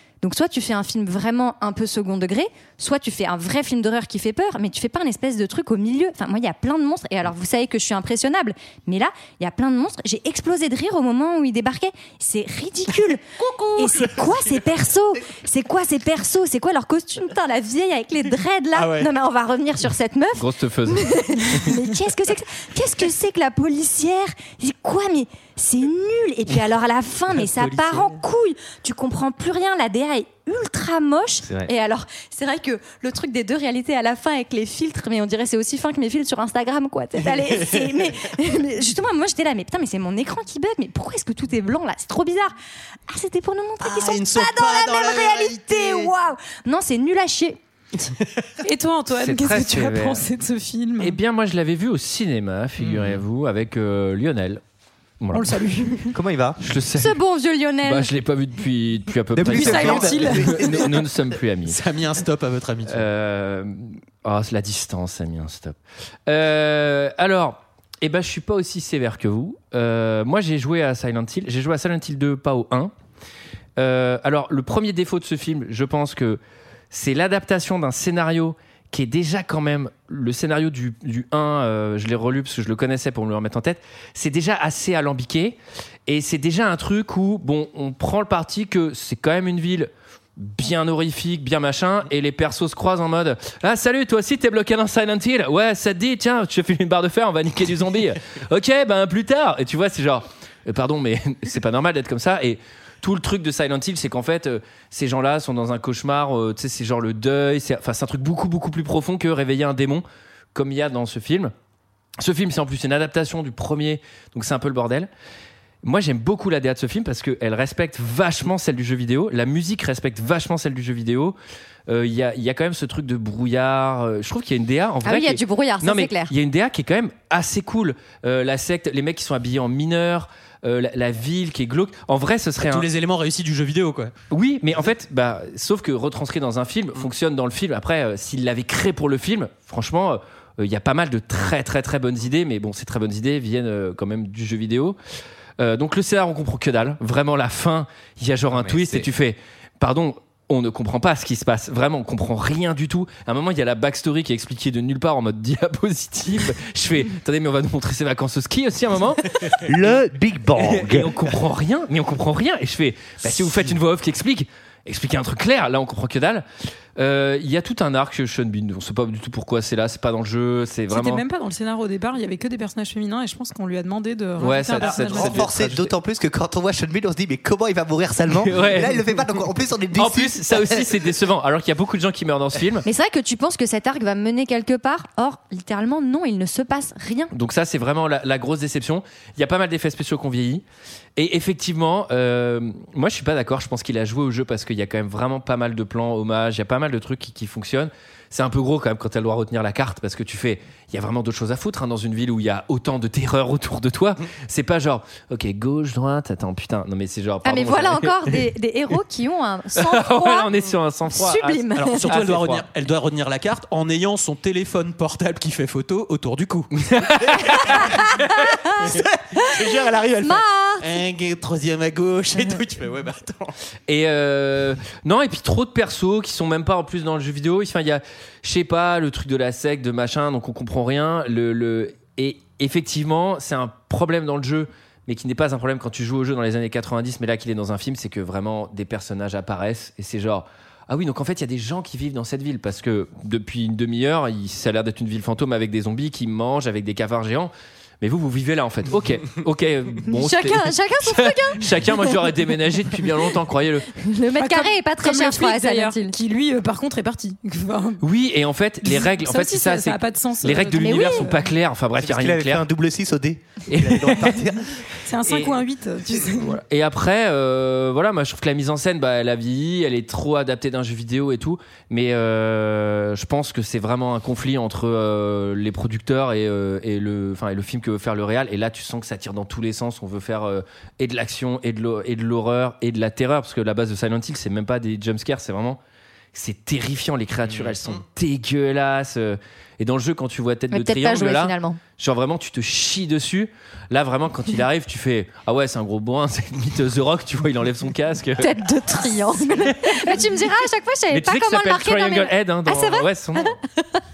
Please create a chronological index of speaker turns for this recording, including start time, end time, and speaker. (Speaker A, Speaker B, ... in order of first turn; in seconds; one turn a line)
Speaker A: 0.2-13.2
Speaker B: 13.4-14.5
Speaker A: 13.8-42.5
Speaker B: 18.7-19.1
Speaker C: 20.3-21.6
Speaker D: 31.4-31.7
Speaker B: 37.2-38.0
Speaker A: 43.1-47.6
Speaker B: 43.8-46.1
Speaker B: 48.0-48.5
Speaker E: 48.6-51.2
Speaker C: 49.2-50.3
Speaker C: 51.0-54.6
Speaker D: 52.8-53.2
Speaker C: 55.2-55.5
Speaker E: 55.3-56.1
Speaker D: 56.1-56.6
Speaker C: 56.6-57.1
Speaker A: 57.0-58.1
Speaker C: 57.8-61.8
Speaker D: 59.4-60.9
Speaker E: 59.5-60.7
Speaker B: 61.7-63.0
Speaker C: 62.9-65.8
Speaker C: 66.3-72.9
Speaker C: 73.8-76.4
Speaker C: 76.9-111.5
Speaker C: 112.2-115.1
Speaker C: 115.8-121.3
Speaker C: 121.9-132.9
Speaker A: 125.0-126.3
Speaker B: 132.6-134.1
Speaker C: 134.3-145.0
Speaker C: 145.6-159.5
Speaker D: 148.5-149.1
Speaker D: 159.6-161.1
Speaker C: 160.6-166.4
Speaker C: 166.9-171.2
Speaker E: 170.9-175.5
Speaker C: 174.4-175.9
Speaker D: 174.8-181.1
Speaker C: 178.4-179.0
Speaker C: 179.9-182.8
Speaker A: 182.8-187.3
Speaker C: 187.3-190.6
Speaker C: 191.2-208.1
Speaker A: 207.4-210.6
Speaker C: 209.7-212.6
Speaker A: 211.1-212.1
Speaker B: 211.7-223.5
Speaker C: 216.9-217.4
Speaker A: 217.7-220.9
Speaker C: 223.9-253.9
Speaker A: 250.1-252.1
Speaker A: 254.0-256.1
Speaker E: 254.3-258.0
Speaker C: 258.0-262.6
Speaker E: 258.9-261.4
Speaker A: 260.8-261.3
Speaker D: 262.0-264.8
Speaker C: 263.7-264.4
Speaker E: 265.1-266.6
Speaker C: 265.2-265.6
Speaker C: 266.4-285.8
Speaker C: 286.3-298.5
Speaker B: 287.5-288.0
Speaker A: 290.7-291.8
Speaker A: 298.4-304.0
Speaker C: 299.9-300.2
Speaker C: 301.1-303.5